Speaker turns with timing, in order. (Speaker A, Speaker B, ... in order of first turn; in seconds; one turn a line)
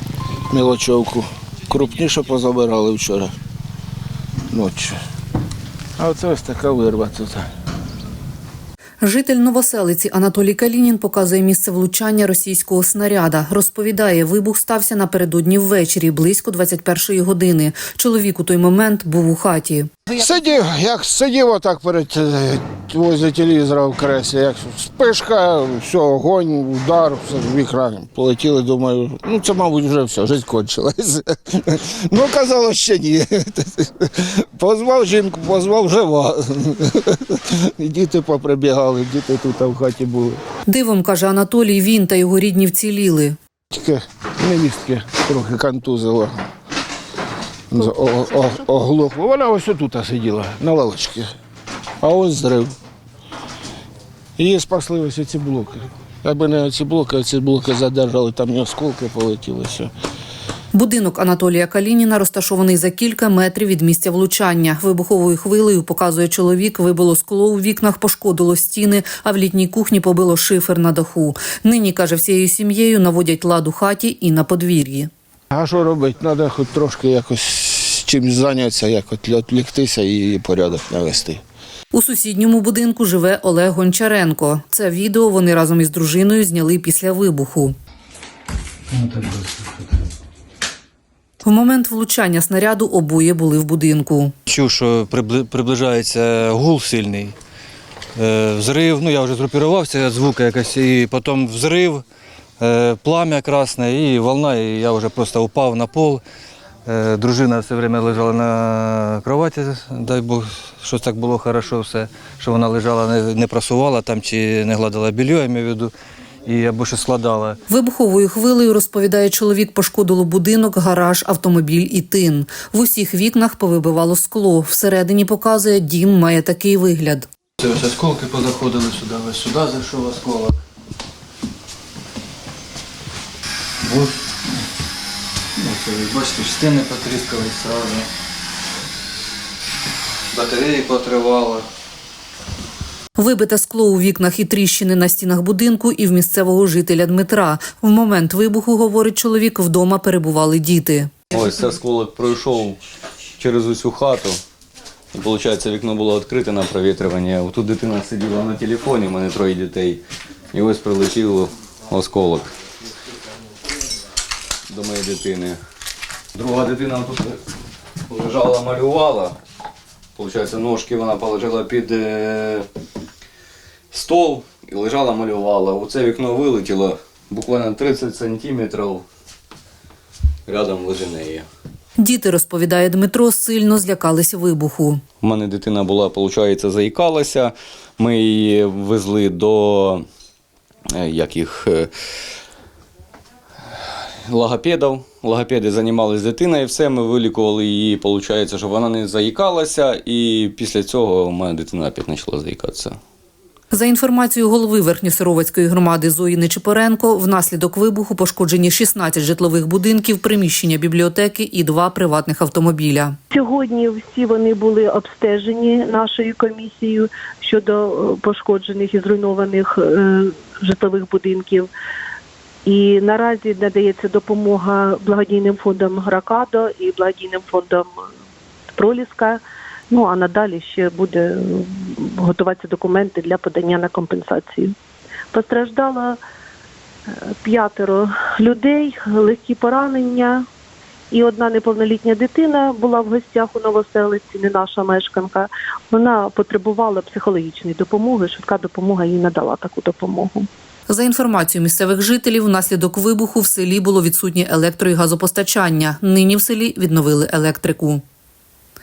Speaker A: 0.5-3.3
Speaker A: 4.5-5.0
Speaker A: 6.0-7.5
Speaker B: 9.0-19.9
Speaker A: 20.1-40.4
Speaker B: 40.7-43.4
Speaker A: 43.7-46.4
Speaker A: 47.7-51.3
Speaker A: 52.0-52.7
Speaker A: 54.4-59.9
Speaker B: 60.7-75.1
Speaker A: 75.5-81.4
Speaker B: 81.9-87.8
Speaker C: 88.9-89.7
Speaker B: 91.4-94.3
Speaker C: 94.5-97.3
Speaker C: 98.2-102.0
Speaker C: 102.6-106.2
Speaker C: 106.9-115.9
Speaker C: 116.5-117.6
Speaker B: 117.7-127.3
Speaker C: 127.6-130.6
Speaker C: 133.8-134.1
Speaker C: 135.6-138.1
Speaker C: 140.3-141.7
Speaker B: 143.2-151.1
Speaker D: 151.3-152.8
Speaker D: 153.4-154.4
Speaker D: 155.1-160.0
Speaker D: 160.5-162.5
Speaker D: 164.7-165.6
Speaker D: 166.3-167.4
Speaker D: 168.1-169.4
Speaker D: 170.2-172.7
Speaker D: 173.9-179.1
Speaker D: 180.5-181.5
Speaker B: 182.0-185.0
Speaker D: 185.2-190.1
Speaker D: 190.9-191.9
Speaker D: 194.2-203.0
Speaker B: 203.7-213.2
Speaker E: 213.3-221.7
Speaker E: 222.7-228.1
Speaker E: 228.7-234.8
Speaker E: 235.3-236.2
Speaker E: 237.1-240.4
Speaker E: 241.1-250.5
Speaker B: 250.9-258.0